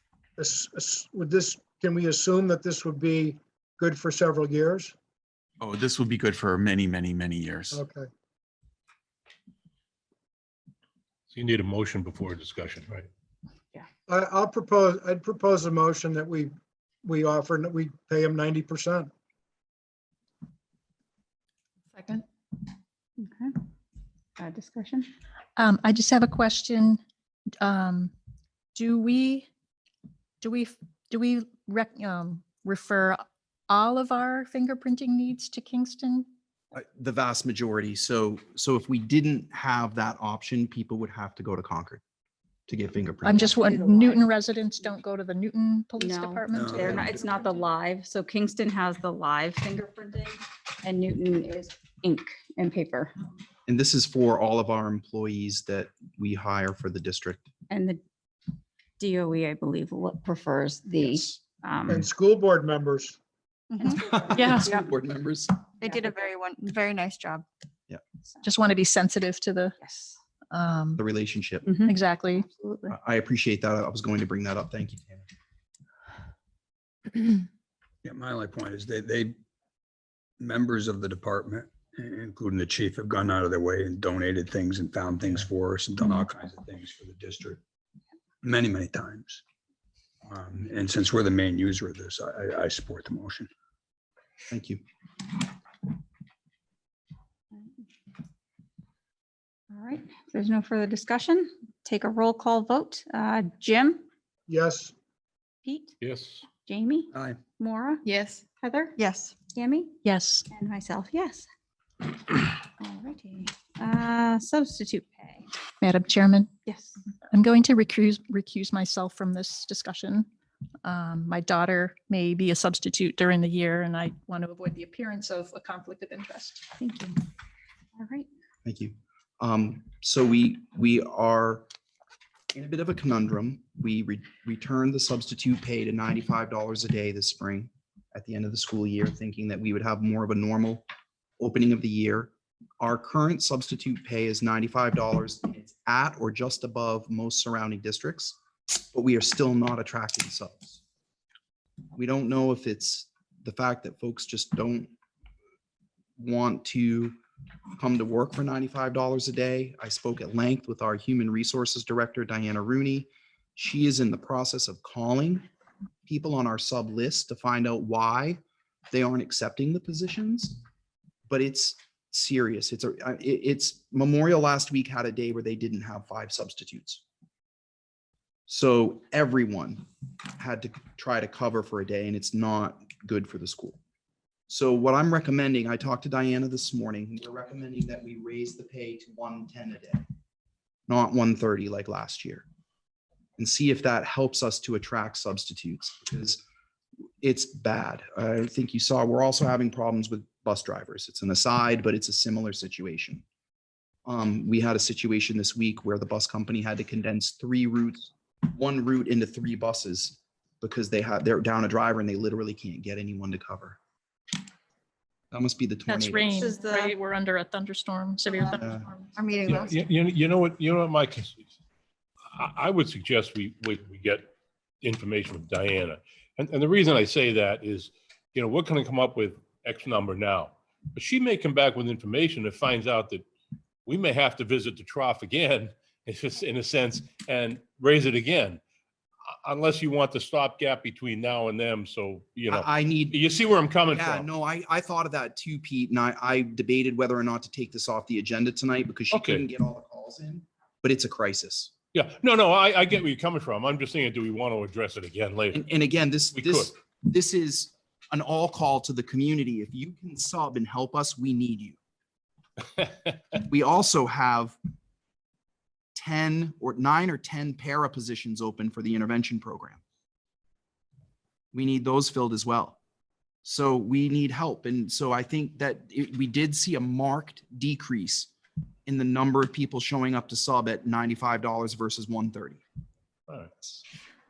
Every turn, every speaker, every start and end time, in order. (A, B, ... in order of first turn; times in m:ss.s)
0:00.4-0:04.9 A
0:05.6-0:07.7 B
0:07.7-0:08.1 A
0:11.3-0:13.1 C
0:14.1-0:16.5 A
0:17.0-0:19.1 A
0:21.9-0:22.2 D
0:23.2-0:23.5 E
0:24.4-0:25.1 E
0:25.6-0:27.0 D
0:27.6-0:28.1 D
0:28.7-0:29.5 D
0:30.4-0:36.3 D
0:36.7-0:42.0 F
0:42.7-0:43.5 F
0:43.2-0:47.1 D
0:43.3-0:44.3 E
0:46.0-0:53.1 E
0:46.5-0:47.2 G
0:46.7-0:47.2 F
0:53.7-0:57.5 F
0:57.7-0:58.0 E
0:59.0-1:02.1 E
1:01.0-1:01.4 F
1:01.9-1:03.2 A
1:03.7-1:04.6 H
1:04.0-1:05.6 F
1:04.3-1:04.7 D
1:05.8-1:07.4 H
1:08.4-1:09.8 D
1:09.8-1:10.1 E
1:10.5-1:11.0 D
1:11.0-1:11.7 F
1:11.6-1:12.0 E
1:11.8-1:12.5 D
1:12.5-1:12.9 E
1:12.9-1:15.3 F
1:18.0-1:19.4 G
1:20.4-1:27.6 G
1:28.4-1:29.4 G
1:30.2-1:33.5 G
1:34.5-1:34.8 F
1:37.5-1:37.8 E
1:39.7-1:44.0 E
1:44.5-1:44.9 A
1:45.6-1:45.9 E
1:46.0-1:46.4 C
1:46.6-1:48.9 E
1:47.1-1:47.4 G
1:48.0-1:48.4 H
1:49.0-1:49.4 H
1:49.5-1:50.0 E
1:50.0-1:50.4 D
1:50.5-1:51.5 E
1:52.8-1:55.5 E
1:55.8-1:56.5 D
1:56.6-1:57.0 E
1:57.3-2:00.3 D
2:00.8-2:06.6 D
2:06.8-2:07.2 E
2:08.0-2:08.3 E
2:08.6-2:11.7 F
2:12.5-2:20.8 F
2:21.4-2:30.8 F
2:31.9-2:34.9 F
2:36.2-2:37.2 F
2:37.8-2:45.4 F
2:46.0-2:50.6 F
2:51.3-2:57.0 F
2:58.5-2:59.8 F
3:00.4-3:03.8 F
3:04.5-3:10.0 F
3:10.9-3:12.4 F
3:13.4-3:16.4 F
3:17.2-3:23.2 F
3:24.0-3:33.8 F
3:35.3-3:36.3 F
3:35.9-3:39.1 D
3:36.3-3:36.9 E
3:38.3-3:38.6 H
3:38.6-3:38.8 F
3:39.2-3:39.7 H
3:39.4-3:41.4 C
3:42.3-3:44.3 C
3:44.8-3:53.2 C
3:53.8-3:58.6 C
3:59.4-4:04.3 C
4:02.5-4:03.3 F
4:03.9-4:11.7 F
4:09.1-4:09.4 C
4:11.9-4:15.6 C
4:15.5-4:21.8 F
4:16.3-4:16.7 C
4:23.4-4:24.6 F
4:25.9-4:29.8 F
4:31.5-4:32.8 F
4:33.4-4:38.3 F
4:38.8-4:42.6 F